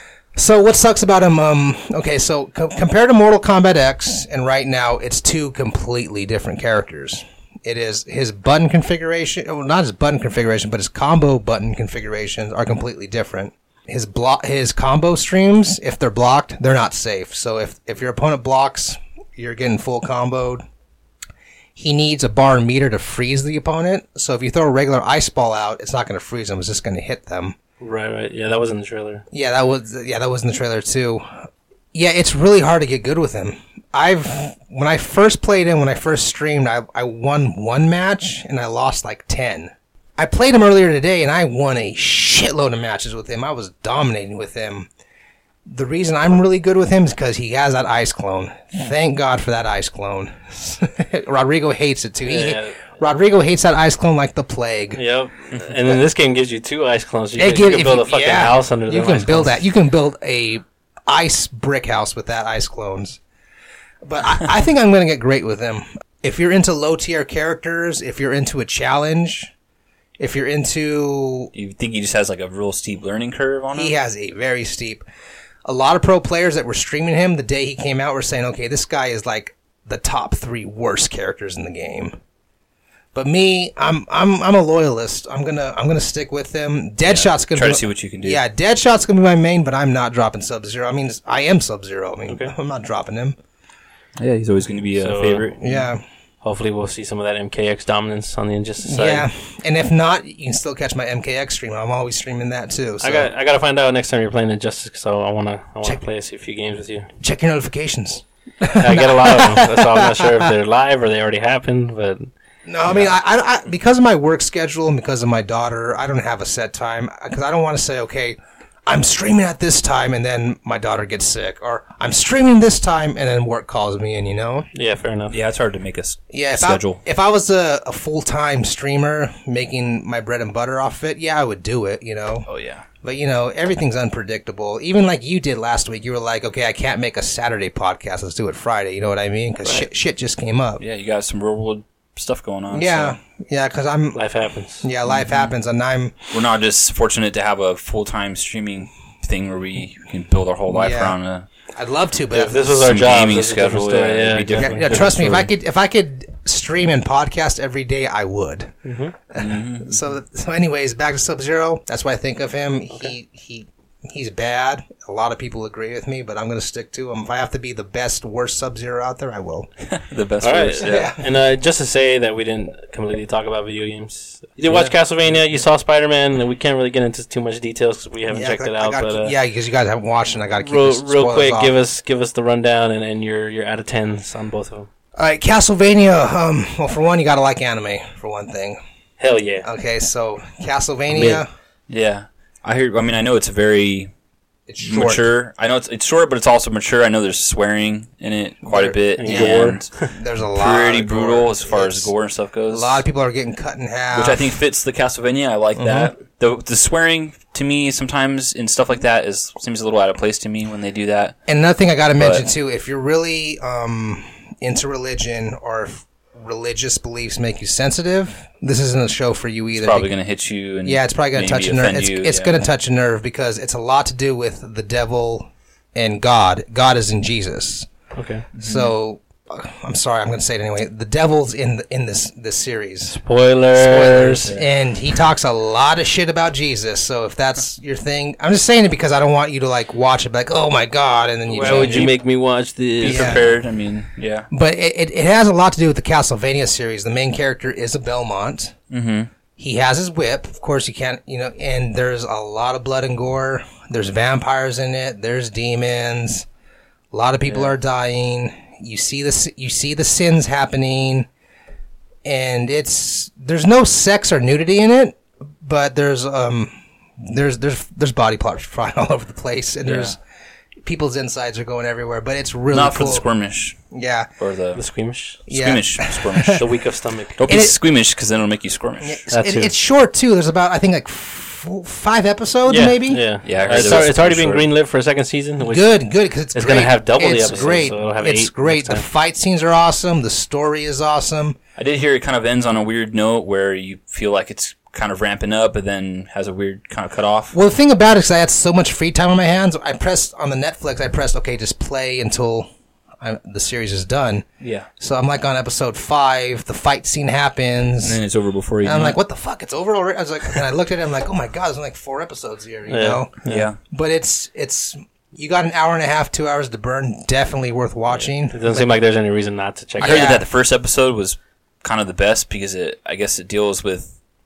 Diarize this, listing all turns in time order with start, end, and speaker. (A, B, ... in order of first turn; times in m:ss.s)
0:00.4-0:20.6 A
0:21.8-0:27.6 A
0:27.8-0:29.2 B
0:29.3-0:31.3 A
0:31.9-0:44.9 A
0:45.7-0:55.0 A
0:52.2-0:52.8 B
0:54.9-0:59.6 B
0:57.4-1:03.2 A
1:04.0-1:09.5 A
1:10.2-1:11.5 A
1:11.5-1:13.9 C
1:13.7-1:15.0 A
1:15.6-1:22.2 A
1:23.1-1:33.4 A
1:27.1-1:28.4 C
1:34.2-1:35.8 C
1:35.0-1:35.6 B
1:35.6-1:36.0 A
1:36.4-1:39.3 B
1:38.8-1:43.3 A
1:43.0-1:47.1 B
1:47.2-1:50.5 A
1:48.8-1:52.3 B
1:52.6-2:04.7 A
2:04.7-2:05.4 B
2:05.3-2:07.0 C
2:06.3-2:12.5 A
2:12.5-2:12.8 C
2:13.0-2:20.8 A
2:20.8-2:23.2 C
2:22.7-2:24.2 A
2:24.1-2:24.9 B
2:24.8-2:26.2 A
2:25.1-2:25.5 C
2:26.3-2:31.4 C
2:30.7-2:31.2 A
2:31.7-2:32.8 A
2:32.3-2:35.5 B
2:32.7-2:35.3 C
2:34.6-2:38.7 A
2:38.8-2:39.1 B
2:39.3-2:49.7 A
2:39.4-2:40.0 C
2:49.9-2:51.1 C
2:50.4-2:59.3 B
2:50.8-2:51.2 A
2:54.7-2:54.9 C
2:58.3-3:01.7 A
3:00.6-3:04.9 B
3:05.2-3:08.8 A
3:09.2-3:09.6 B
3:09.6-3:11.5 A
3:11.1-3:11.4 B
3:11.9-3:14.1 C
3:14.7-3:15.2 A
3:14.8-3:20.0 C
3:18.6-3:22.1 A
3:19.2-3:20.1 B
3:20.5-3:23.0 C
3:22.7-3:24.6 A
3:24.1-3:31.3 C
3:25.8-3:26.1 A
3:31.5-3:40.1 A
3:32.2-3:32.4 C
3:39.8-3:42.5 C
3:40.8-3:47.9 A
3:48.1-3:48.5 B
3:48.6-3:48.9 C
3:48.6-3:53.2 A
3:53.1-3:54.5 B
3:53.7-4:02.1 A
4:01.5-4:03.4 B
4:01.5-4:02.2 C
4:03.0-4:04.5 C
4:03.0-4:03.5 A
4:04.5-4:08.7 A
4:08.9-4:09.3 C
4:09.6-4:16.5 A
4:17.1-4:21.3 A
4:22.2-4:30.2 A
4:29.8-4:30.1 C
4:30.8-4:33.2 A
4:32.7-4:33.8 C
4:33.9-4:34.3 A
4:34.4-4:34.8 C
4:34.7-4:35.4 B
4:35.4-4:36.7 C
4:35.5-4:36.6 A
4:36.5-4:37.4 B
4:37.4-4:39.2 C
4:37.5-4:37.8 A
4:39.0-4:44.1 A
4:39.3-4:39.7 B
4:42.6-4:46.0 B
4:43.4-4:44.7 C
4:45.6-4:51.6 A
4:46.5-4:49.0 B
4:51.8-4:57.5 C
4:57.5-5:02.7 A
5:03.2-5:04.4 A
5:04.6-5:04.9 C
5:05.0-5:08.2 A
5:08.0-5:09.2 C
5:08.8-5:13.4 A
5:12.9-5:13.7 B
5:13.4-5:13.8 C
5:13.9-5:18.8 A
5:18.5-5:20.3 B
5:20.0-5:20.4 A
5:20.0-5:24.1 C